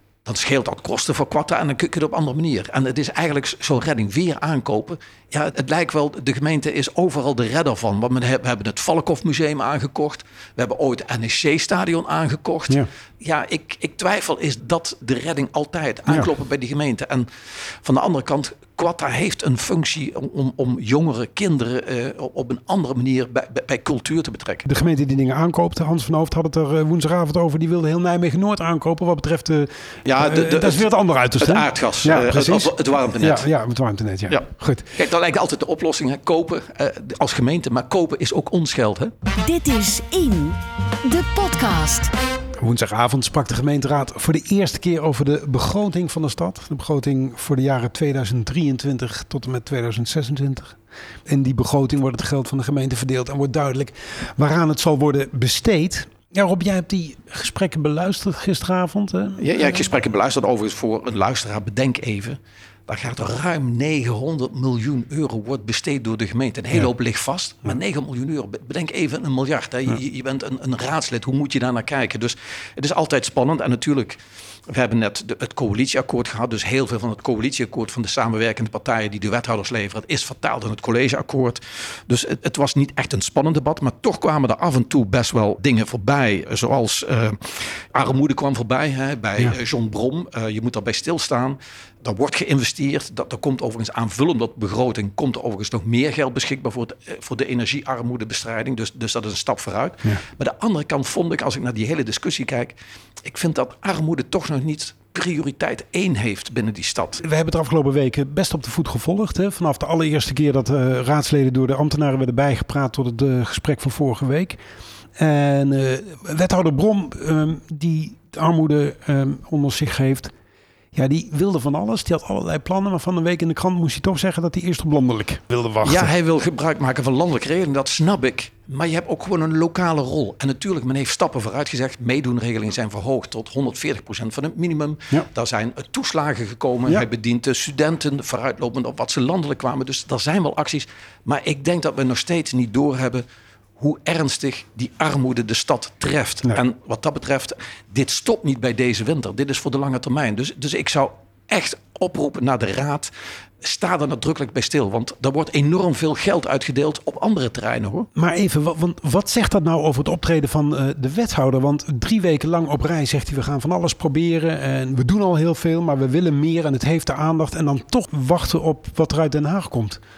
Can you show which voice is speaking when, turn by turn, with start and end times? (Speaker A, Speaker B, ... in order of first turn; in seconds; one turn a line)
Speaker A: 0.2-24.6
Speaker B: 24.6-34.9
Speaker A: 30.0-33.5
Speaker A: 34.3-39.1
Speaker C: 39.4-42.1
Speaker B: 42.6-59.4
Speaker A: 59.4-107.2
Speaker B: 107.2-114.6
Speaker B: 115.2-120.3
Speaker B: 120.9-126.1
Speaker A: 125.8-143.2
Speaker A: 143.8-158.1
Speaker B: 158.1-170.0